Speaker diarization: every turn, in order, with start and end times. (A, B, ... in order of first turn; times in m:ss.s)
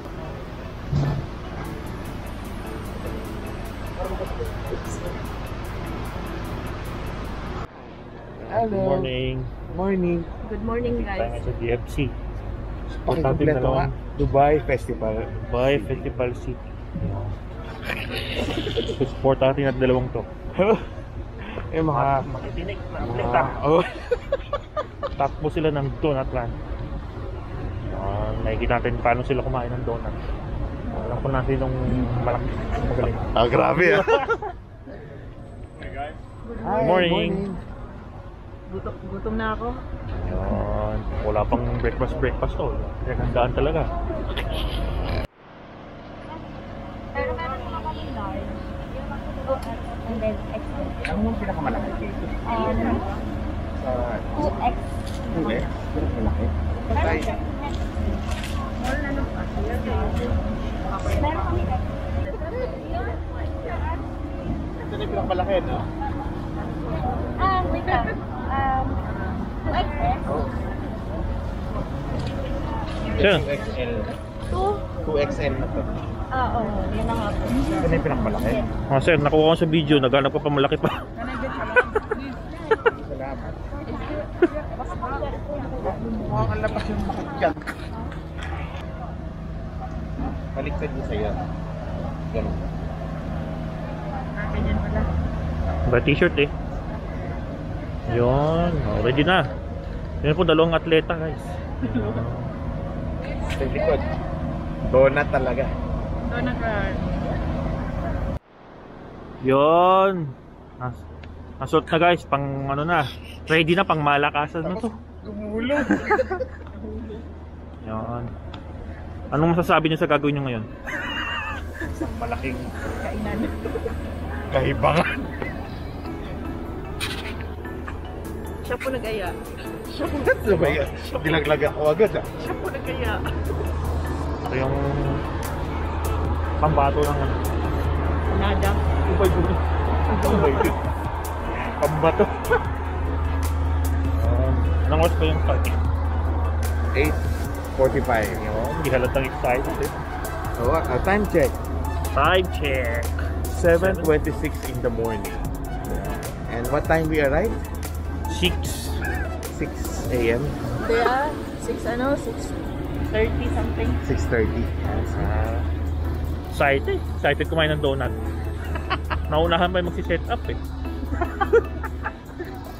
0:08.4-0:09.1 A
0:08.5-0:09.5 B
0:09.7-0:10.3 A
0:10.4-0:11.3 C
0:10.9-0:12.1 B
0:13.0-0:14.0 B
0:13.1-0:16.0 A
0:15.4-0:17.3 B
0:18.7-0:20.3 B
0:20.6-0:20.8 A
0:21.5-0:22.3 A
0:21.9-0:23.6 B
0:23.0-0:23.9 A
0:25.2-0:26.6 B
0:27.9-0:30.2 B
0:30.9-0:34.2 B
0:33.3-0:34.3 A
0:36.4-0:37.0 C
0:36.6-0:37.6 A
0:36.8-0:37.4 B
0:38.7-0:39.8 C
0:40.2-0:43.9 B
0:47.1-0:48.5 C
0:49.5-0:50.9 C
0:51.0-0:53.0 A
0:52.5-0:53.0 C
0:53.8-0:54.5 A
0:55.3-0:57.3 A
0:58.9-1:00.2 C
1:01.0-1:01.6 C
1:04.8-1:05.9 A
1:07.4-1:08.1 C
1:13.2-1:14.1 A
1:13.2-1:13.5 B
1:14.5-1:14.8 C
1:15.0-1:16.0 A
1:16.3-1:18.2 C
1:17.8-1:18.6 A
1:18.9-1:21.0 B
1:22.8-1:23.5 A
1:26.1-1:27.6 A
1:30.5-1:31.4 A
1:32.3-1:32.6 A
1:34.4-1:35.1 C
1:35.8-1:36.5 B
1:38.1-1:39.5 B
1:40.2-1:42.5 B
1:43.6-1:44.0 A
1:44.8-1:45.7 A
1:46.3-1:47.0 C
1:49.4-1:51.0 B
1:51.6-1:55.0 B
1:54.6-1:56.3 A
1:57.8-1:58.3 B
1:59.3-2:00.7 B
2:02.0-2:02.6 A
2:02.9-2:03.6 C
2:04.5-2:05.1 A
2:08.6-2:09.4 C
2:09.9-2:10.4 C
2:10.1-2:12.3 A
2:10.9-2:11.4 C
2:12.4-2:13.2 C
2:14.5-2:15.2 B
2:16.6-2:17.4 B
2:18.3-2:18.8 C
2:19.0-2:19.6 B
2:20.1-2:20.8 C
2:20.1-2:20.7 A
2:21.8-2:22.3 B
2:24.2-2:25.8 B
2:26.9-2:27.2 A
2:27.7-2:28.4 A
2:28.3-2:29.9 B
2:30.6-2:31.6 A
2:32.1-2:33.2 B
2:33.5-2:37.6 A
2:33.7-2:34.1 B
2:38.3-2:39.0 B
2:39.5-2:40.5 A
2:40.8-2:42.6 C
2:43.1-2:44.0 C
2:44.0-2:45.3 A
2:45.2-2:45.6 B
2:46.5-2:48.1 B
2:49.3-2:50.6 B